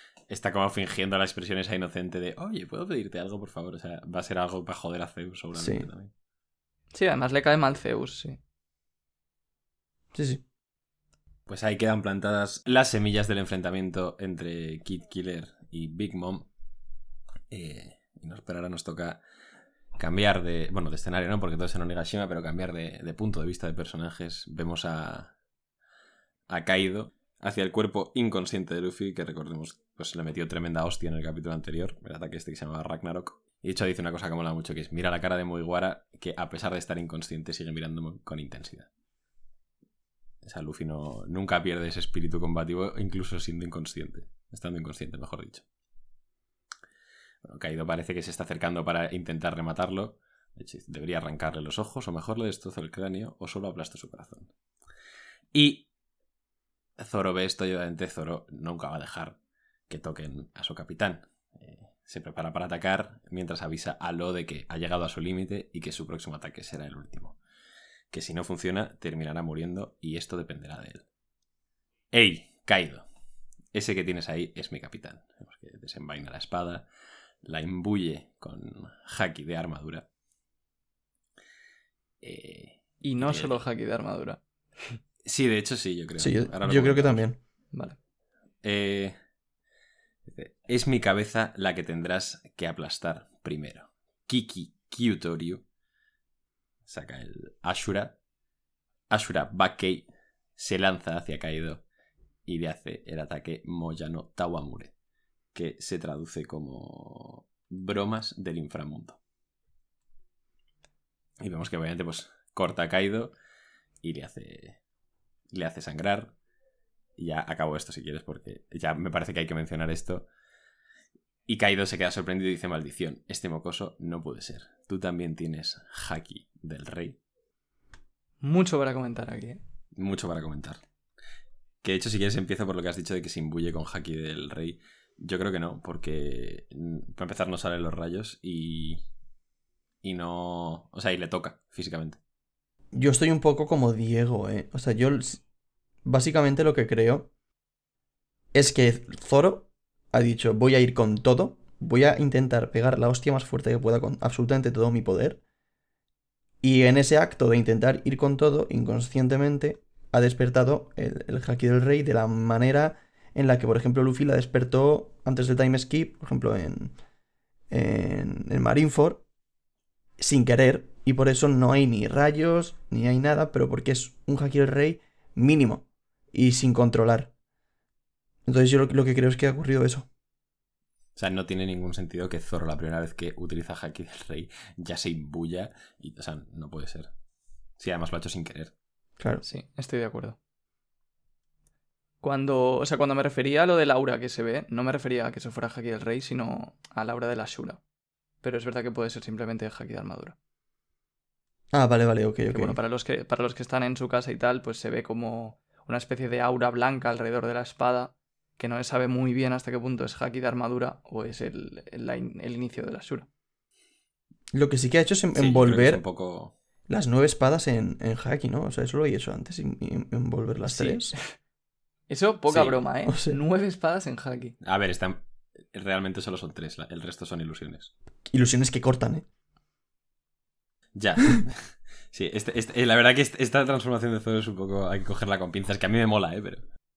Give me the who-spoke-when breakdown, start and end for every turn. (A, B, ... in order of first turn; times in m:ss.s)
0:00.3-0:06.1 A
0:05.5-0:05.9 B
0:06.9-0:08.4 C
0:10.1-0:10.4 B
0:11.5-0:16.4 A
0:17.5-0:19.2 A
0:20.0-0:25.3 A
0:26.5-0:38.9 A
0:40.4-0:45.6 A
0:47.4-0:54.5 A
0:55.5-0:55.8 A
0:57.0-0:59.4 A
0:59.9-1:07.4 A
1:08.1-1:11.0 A
1:12.1-1:13.0 A
1:13.7-1:16.9 A
1:17.4-1:20.0 A
1:22.2-1:23.6 A
1:23.0-1:25.0 C
1:25.2-1:27.2 A
1:26.2-1:27.4 B
1:28.6-1:29.2 A
1:30.2-1:35.6 A
1:36.8-1:38.2 A
1:39.1-1:41.8 A
1:42.4-1:44.9 A
1:45.5-1:49.2 A
1:51.4-1:53.3 A
1:54.0-1:54.8 A
1:55.5-1:56.3 A
1:57.2-2:00.2 A
2:01.5-2:07.2 A
2:08.4-2:09.6 C
2:09.9-2:10.8 A
2:11.8-2:19.0 A
2:20.0-2:22.2 A
2:22.9-2:25.4 B
2:26.0-2:27.3 B
2:28.5-2:35.4 B
2:36.6-2:46.9 B
2:47.7-2:49.2 B
2:50.2-2:57.3 B
2:58.4-3:00.1 B
3:01.2-3:07.1 A
3:07.8-3:08.7 A
3:09.2-3:09.4 B
3:09.4-3:10.4 C
3:12.2-3:17.8 C
3:18.4-3:20.3 C
3:21.7-3:22.8 B
3:22.5-3:33.3 C
3:34.5-3:36.0 B
3:35.3-3:36.5 A
3:36.9-3:41.1 B
3:40.7-3:41.3 C
3:42.1-3:44.5 C
3:42.5-3:42.8 A
3:43.1-3:43.4 B
3:44.6-3:47.9 A
3:48.3-3:49.2 B
3:50.9-3:56.6 A